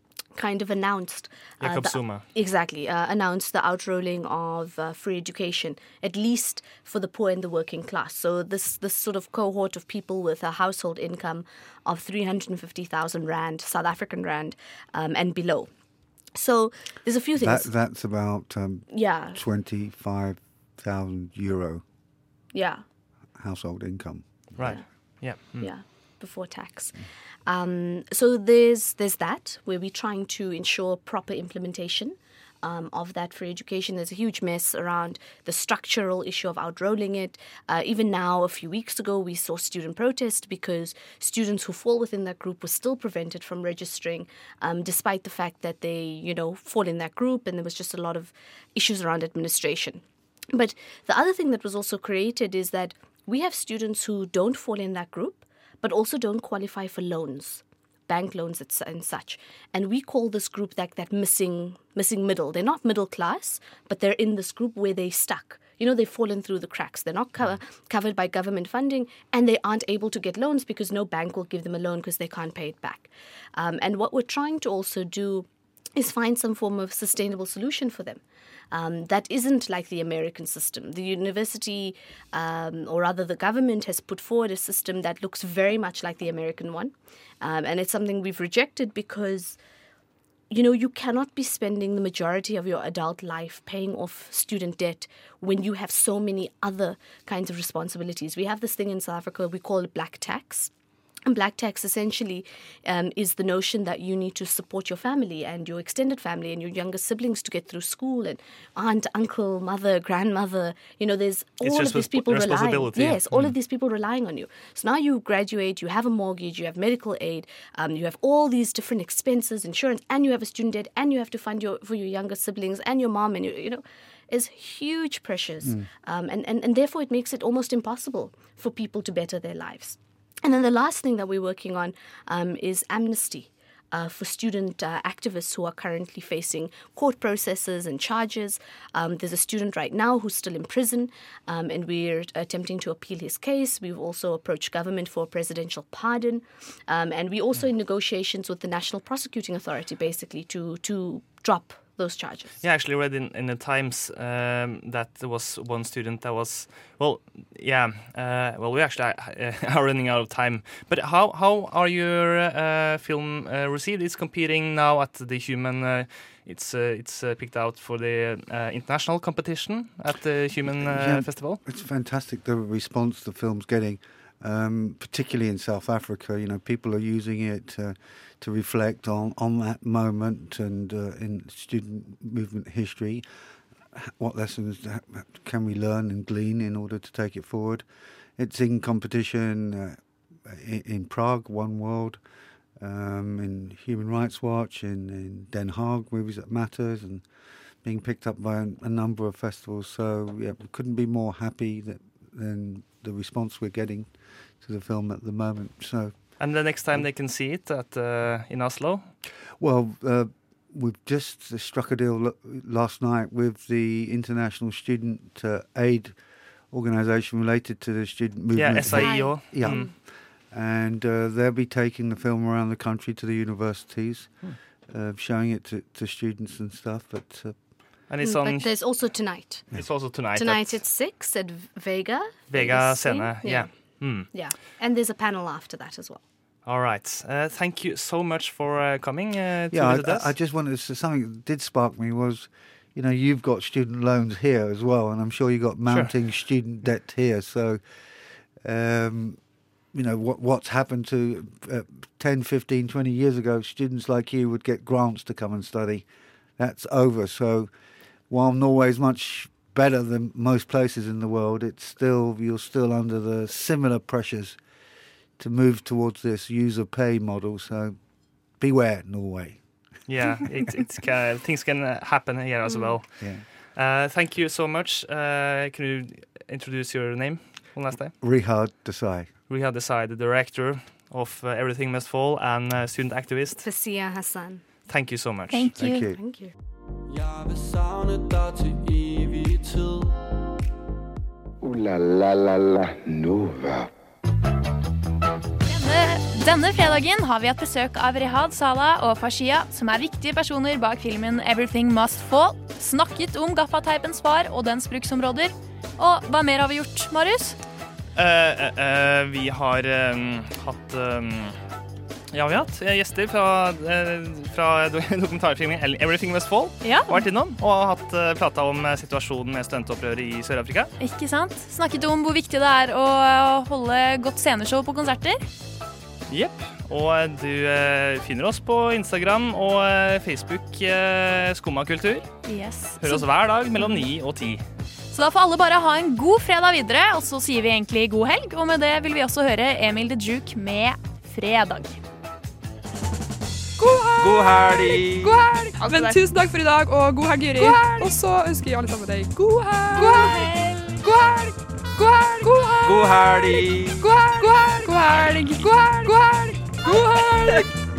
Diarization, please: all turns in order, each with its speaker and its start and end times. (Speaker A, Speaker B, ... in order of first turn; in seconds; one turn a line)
Speaker A: 0.3-15.7
Speaker B: 1.6-2.2
Speaker A: 16.4-17.7
Speaker C: 17.4-21.8
Speaker A: 18.9-19.4
Speaker A: 22.5-22.8
Speaker C: 23.4-24.7
Speaker B: 24.6-25.7
Speaker A: 24.6-24.9
Speaker A: 25.5-78.2
Speaker A: 78.7-89.6
Speaker A: 90.5-100.7
Speaker A: 101.3-152.6
Speaker B: 111.6-113.5
Speaker C: 125.6-125.9
Speaker B: 152.6-171.6
Speaker C: 170.8-183.2
Speaker C: 183.9-192.2
Speaker C: 192.8-197.2
Speaker C: 197.8-206.2
Speaker B: 206.4-209.1
Speaker C: 209.6-216.2
Speaker C: 216.7-227.6
Speaker B: 218.5-219.9
Speaker A: 218.8-219.9
Speaker B: 228.1-228.7
Speaker A: 228.2-236.2
Speaker B: 229.8-230.8
Speaker B: 232.5-234.3
Speaker B: 236.7-240.3
Speaker C: 239.7-247.8
Speaker B: 245.9-246.1
Speaker C: 248.6-249.4
Speaker C: 249.9-256.1
Speaker C: 256.6-257.7
Speaker C: 258.3-264.6
Speaker C: 265.4-268.0
Speaker C: 268.6-269.6
Speaker B: 270.1-278.1
Speaker A: 272.7-273.0
Speaker C: 273.2-273.4
Speaker C: 278.2-279.3
Speaker B: 279.5-283.7
Speaker A: 283.6-284.6
Speaker B: 284.9-285.7
Speaker D: 285.5-286.1
Speaker C: 285.8-286.2
Speaker A: 286.1-286.5
Speaker E: 287.1-290.2
Speaker F: 291.6-293.9
Speaker D: 295.7-307.6
Speaker B: 308.2-311.6
Speaker B: 312.3-320.9
Speaker D: 316.8-317.2
Speaker D: 321.0-325.4
Speaker B: 326.3-332.3
Speaker D: 332.4-333.3
Speaker B: 333.0-334.6
Speaker D: 333.8-334.1
Speaker D: 335.1-342.0
Speaker G: 343.8-357.7
Speaker E: 344.2-345.4
Speaker D: 350.0-350.5
Speaker F: 352.9-354.0
Speaker E: 352.9-353.9